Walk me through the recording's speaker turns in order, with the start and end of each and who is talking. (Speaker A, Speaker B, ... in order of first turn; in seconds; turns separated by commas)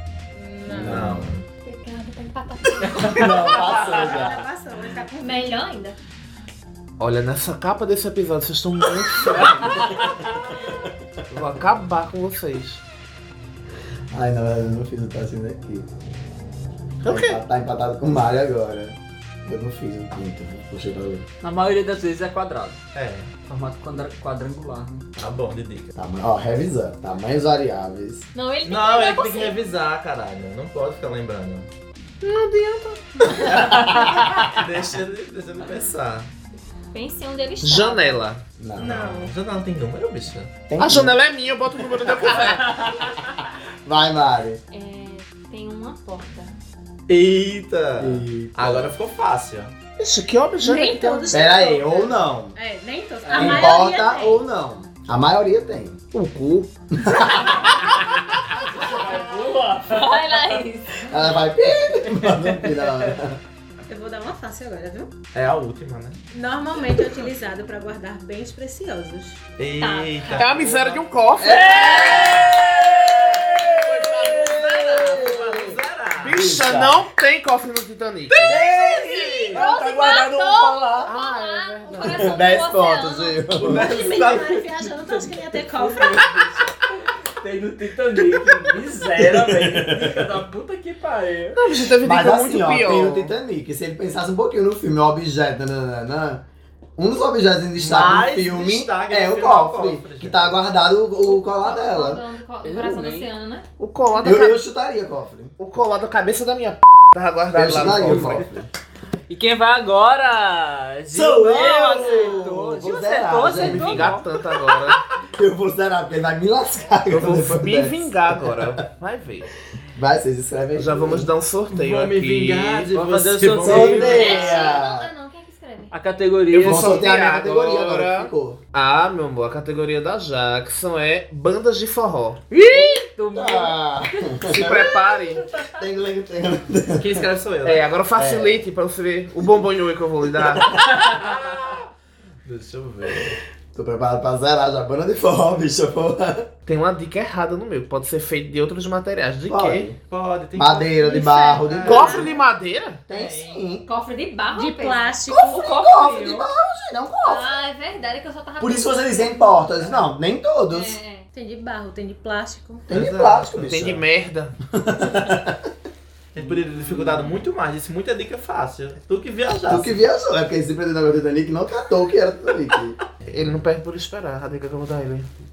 Speaker A: 0.3-1.1, Speaker B: 0.7-1.4, Speaker C: 0.7-1.4, Speaker D: 1.6-3.8, Speaker E: 2.9-3.3, Speaker B: 3.0-4.5, Speaker A: 3.6-5.7, Speaker D: 5.2-6.0, Speaker F: 7.0-10.1, Speaker B: 9.3-10.1, Speaker F: 11.3-12.8, Speaker B: 14.1-15.9, Speaker F: 17.0-17.4, Speaker B: 17.1-21.3, Speaker E: 21.4-22.8, Speaker C: 22.9-23.3, Speaker E: 23.5-25.1, Speaker C: 25.2-25.9, Speaker B: 26.0-28.3, Speaker D: 28.3-29.6, Speaker C: 28.6-31.7, Speaker F: 32.2-34.5, Speaker C: 33.5-36.3, Speaker E: 33.5-34.0, Speaker D: 36.9-38.2, Speaker F: 37.6-38.4, Speaker B: 38.6-39.0, Speaker C: 38.8-40.6, Speaker A: 38.8-39.3, Speaker B: 40.7-41.2, Speaker F: 40.8-43.0, Speaker E: 42.4-43.2, Speaker B: 43.9-44.6, Speaker D: 44.7-46.5, Speaker C: 47.1-49.7, Speaker B: 48.0-48.9, Speaker F: 50.0-51.4, Speaker A: 50.6-54.4, Speaker B: 51.3-52.6, Speaker E: 53.2-53.7, Speaker B: 53.3-56.0, Speaker F: 56.1-58.1, Speaker B: 57.0-57.7, Speaker E: 58.7-60.4, Speaker D: 59.8-61.3, Speaker B: 61.0-63.4, Speaker E: 61.9-63.1, Speaker A: 63.9-65.1, Speaker C: 65.3-66.2, Speaker A: 66.3-69.4, Speaker C: 69.6-71.0, Speaker D: 69.8-70.6, Speaker F: 70.4-72.6, Speaker B: 71.4-77.0, Speaker E: 71.4-72.7, Speaker C: 73.8-76.5, Speaker F: 73.9-75.1, Speaker F: 76.2-78.6, Speaker C: 78.4-79.5, Speaker B: 78.5-81.1, Speaker D: 79.4-83.6, Speaker F: 81.0-82.5, Speaker B: 82.0-83.9, Speaker C: 83.5-84.9, Speaker A: 83.6-86.3, Speaker E: 85.5-91.6, Speaker B: 89.2-90.2, Speaker F: 91.5-93.3, Speaker B: 92.0-96.4, Speaker B: 97.0-102.2, Speaker C: 97.8-100.6, Speaker D: 101.2-104.3, Speaker E: 102.6-103.3, Speaker F: 103.8-104.6, Speaker B: 104.2-105.5, Speaker F: 105.6-108.5, Speaker B: 107.5-108.7, Speaker E: 109.3-114.3, Speaker B: 111.1-114.3, Speaker F: 113.5-115.0, Speaker B: 115.3-118.8, Speaker F: 117.1-119.5, Speaker B: 119.9-121.3, Speaker F: 120.8-122.9, Speaker C: 121.7-124.4, Speaker E: 122.9-124.4, Speaker B: 123.6-125.1, Speaker D: 124.0-125.9, Speaker E: 125.9-127.0, Speaker F: 126.5-132.9, Speaker B: 126.6-128.6, Speaker E: 132.5-134.4, Speaker B: 133.3-137.3, Speaker F: 134.4-135.4, Speaker C: 136.9-137.9, Speaker F: 137.6-141.3, Speaker B: 138.2-138.6, Speaker B: 140.4-140.7, Speaker C: 141.2-141.7, Speaker C: 142.4-143.4, Speaker B: 143.7-146.5, Speaker F: 146.7-149.9, Speaker B: 149.5-150.0, Speaker C: 150.0-151.0, Speaker B: 150.6-152.3, Speaker A: 151.0-152.3, Speaker C: 151.6-152.3, Speaker F: 151.8-153.0, Speaker C: 153.1-153.7, Speaker B: 153.1-153.8, Speaker D: 153.9-156.5, Speaker A: 154.5-155.9, Speaker B: 155.3-157.6, Speaker D: 157.2-159.9, Speaker B: 158.6-161.0, Speaker D: 160.7-161.3, Speaker A: 161.3-162.9, Speaker B: 162.9-164.0, Speaker C: 162.9-164.0, Speaker F: 163.6-164.6, Speaker B: 164.7-165.7, Speaker C: 166.3-169.9, Speaker E: 166.4-167.1, Speaker B: 169.7-173.0, Speaker F: 173.3-175.3